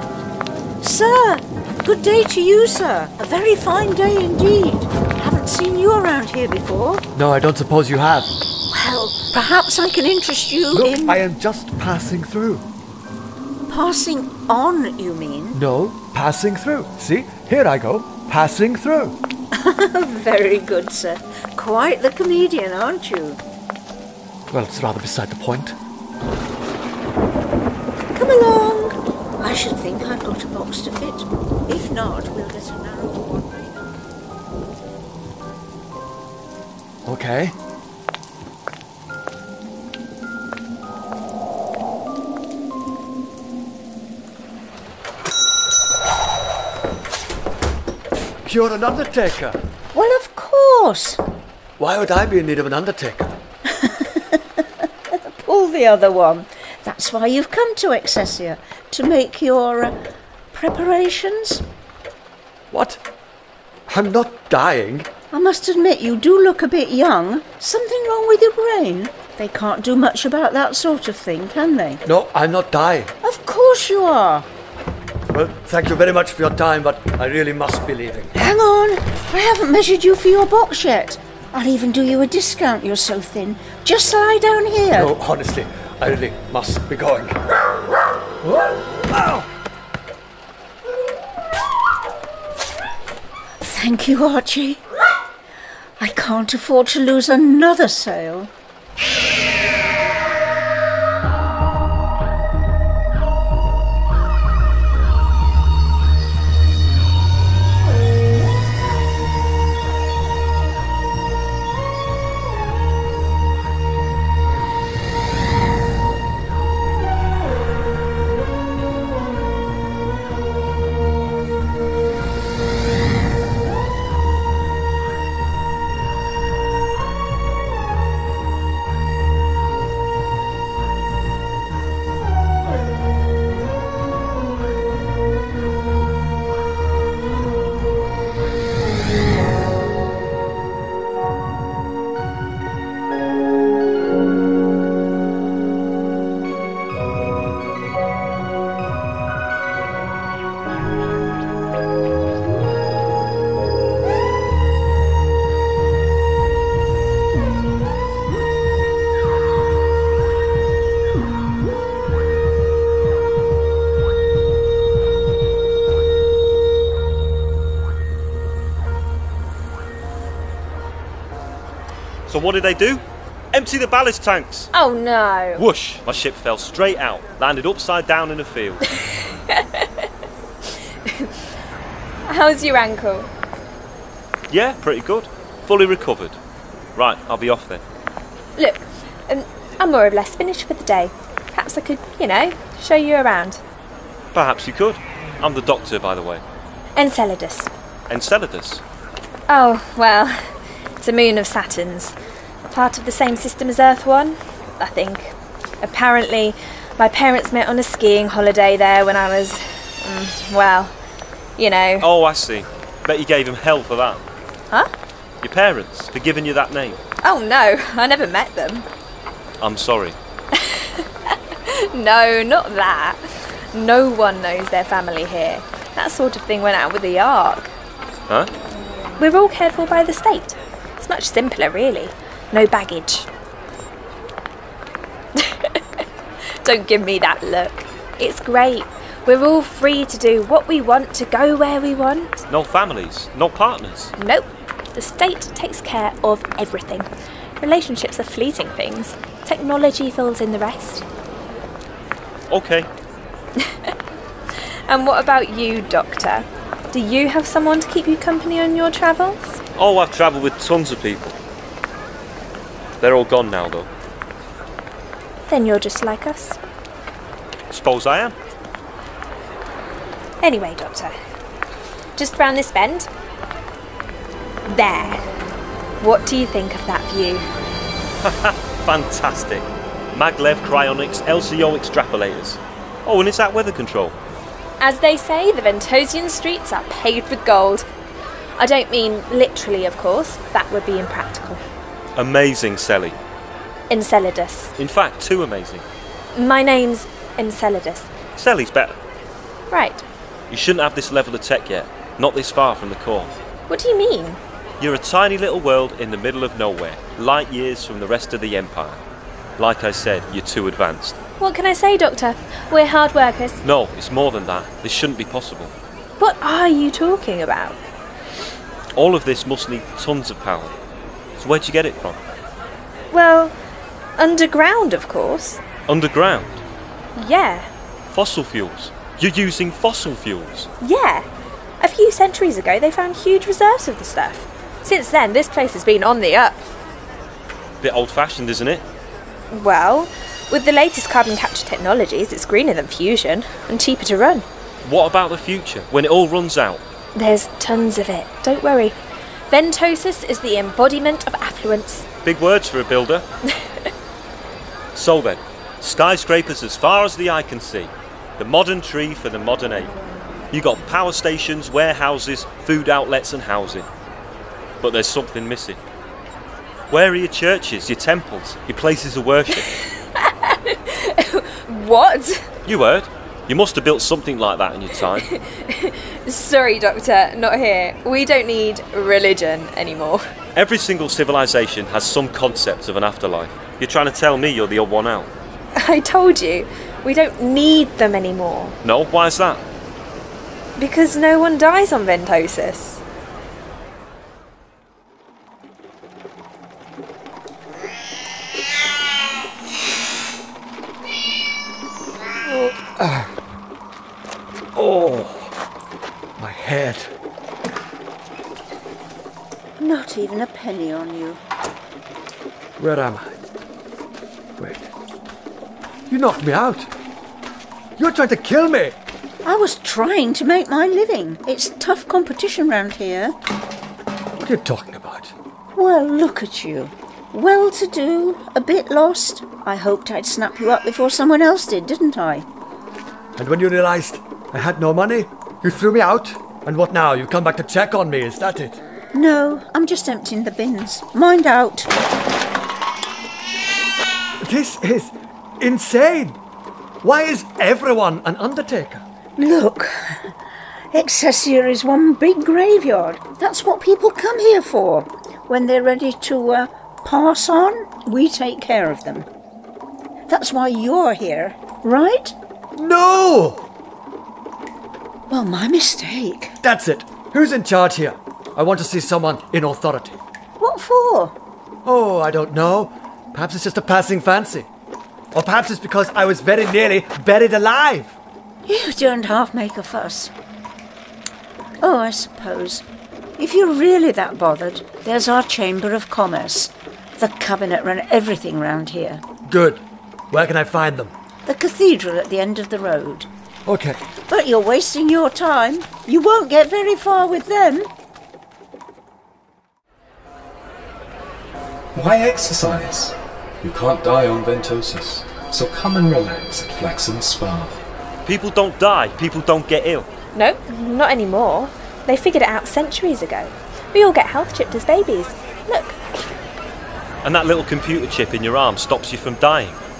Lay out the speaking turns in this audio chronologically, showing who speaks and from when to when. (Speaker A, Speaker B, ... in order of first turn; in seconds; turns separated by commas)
Speaker A: 0.8-7.0, Speaker B: 7.1-8.3, Speaker A: 8.7-11.2, Speaker B: 10.7-12.6, Speaker A: 13.7-15.6, Speaker B: 15.5-19.2, Speaker A: 19.5-23.4, Speaker B: 24.5-25.7, Speaker A: 28.1-33.7, Speaker B: 37.0-37.5, Speaker B: 48.4-49.6, Speaker A: 49.9-51.2, Speaker B: 51.8-53.4, Speaker A: 53.7-60.0, Speaker A: 60.5-61.6, Speaker B: 62.7-63.0, Speaker B: 63.9-65.1, Speaker A: 65.3-72.0, Speaker B: 72.0-73.1, Speaker A: 73.2-74.5, Speaker B: 75.3-78.3, Speaker A: 78.3-85.1, Speaker B: 84.9-87.4, Speaker B: 88.4-89.5, Speaker A: 93.6-94.8, Speaker A: 96.0-98.5, Speaker C: 172.3-173.0, Speaker C: 173.5-174.7, Speaker D: 174.7-175.6, Speaker C: 175.6-178.9, Speaker D: 179.5-180.1, Speaker D: 181.0-181.3, Speaker D: 182.2-183.3, Speaker C: 184.5-186.4, Speaker C: 186.9-187.8, Speaker D: 188.6-193.6, Speaker C: 194.3-196.4, Speaker D: 196.9-197.7, Speaker C: 198.1-198.8, Speaker D: 199.5-200.4, Speaker D: 201.0-202.1, Speaker D: 202.7-210.9, Speaker D: 211.6-212.1, Speaker C: 212.0-214.2, Speaker C: 215.4-217.0, Speaker D: 217.2-218.8, Speaker C: 219.6-220.2, Speaker D: 220.5-227.7, Speaker D: 229.2-233.3, Speaker D: 235.3-242.4, Speaker C: 242.5-244.1, Speaker D: 244.2-247.1, Speaker D: 247.6-251.0, Speaker C: 252.5-252.9, Speaker D: 253.6-253.9, Speaker D: 254.6-259.6, Speaker C: 259.8-261.4, Speaker C: 263.0-263.9, Speaker D: 265.5-266.6, Speaker C: 267.7-268.3, Speaker D: 270.4-271.1, Speaker D: 272.2-273.1, Speaker D: 274.7-275.2, Speaker D: 276.0-277.4, Speaker C: 278.2-284.1, Speaker D: 284.8-287.9, Speaker D: 288.6-291.6, Speaker C: 292.1-293.1, Speaker D: 293.9-294.7, Speaker C: 294.8-295.8, Speaker D: 296.3-298.1, Speaker C: 298.4-299.0, Speaker D: 299.7-300.0, Speaker C: 300.5-303.3, Speaker D: 303.7-304.4, Speaker C: 304.8-309.0, Speaker C: 309.6-311.2, Speaker D: 311.4-313.6, Speaker C: 313.6-315.7, Speaker D: 316.2-317.8, Speaker C: 318.9-320.7, Speaker C: 321.4-322.2, Speaker D: 323.1-323.5, Speaker D: 324.2-325.6, Speaker C: 325.9-326.6, Speaker D: 327.1-327.7, Speaker C: 328.1-330.7, Speaker D: 330.8-331.2, Speaker D: 331.8-336.7, Speaker C: 337.8-338.8, Speaker D: 339.5-344.4, Speaker C: 344.8-346.8, Speaker D: 347.1-349.0, Speaker D: 349.5-352.1, Speaker C: 352.2-353.2, Speaker C: 354.9-359.9, Speaker C: 360.5-363.9, Speaker C: 364.8-365.8, Speaker C: 366.9-369.7, Speaker D: 370.1-372.5, Speaker C: 372.6-375.3, Speaker D: 375.2-380.2, Speaker C: 380.5-385.3, Speaker D: 385.8-388.8, Speaker C: 388.8-389.6, Speaker D: 390.8-393.0, Speaker B: 402.4-403.3, Speaker B: 404.7-405.5, Speaker B: 406.4-407.1, Speaker A: 409.8-411.4, Speaker B: 412.8-413.4, Speaker B: 414.6-414.9, Speaker B: 416.1-416.9, Speaker B: 418.0-418.9, Speaker A: 419.4-423.4, Speaker B: 424.4-425.3, Speaker A: 425.8-432.5, Speaker B: 433.4-438.8, Speaker A: 439.1-441.9, Speaker B: 444.4-446.4, Speaker B: 447.0-449.0, Speaker A: 449.4-450.3, Speaker A: 450.9-459.3, Speaker A: 460.3-462.3, Speaker B: 462.8-463.7, Speaker A: 465.3-466.6, Speaker B: 466.6-470.2, Speaker A: 470.6-471.3, Speaker B: 471.8-474.7, Speaker B: 475.3-478.2, Speaker A: 478.6-480.3, Speaker A: 481.8-482.8, Speaker A: 483.4-489.2, Speaker B: 489.4-491.1, Speaker A: 491.4-493.3, Speaker B: 493.6-494.0, Speaker A: 494.3-497.9, Speaker E: 501.9-507.8, Speaker C: 508.2-510.1, Speaker D: 510.3-516.0, Speaker C: 517.2-519.8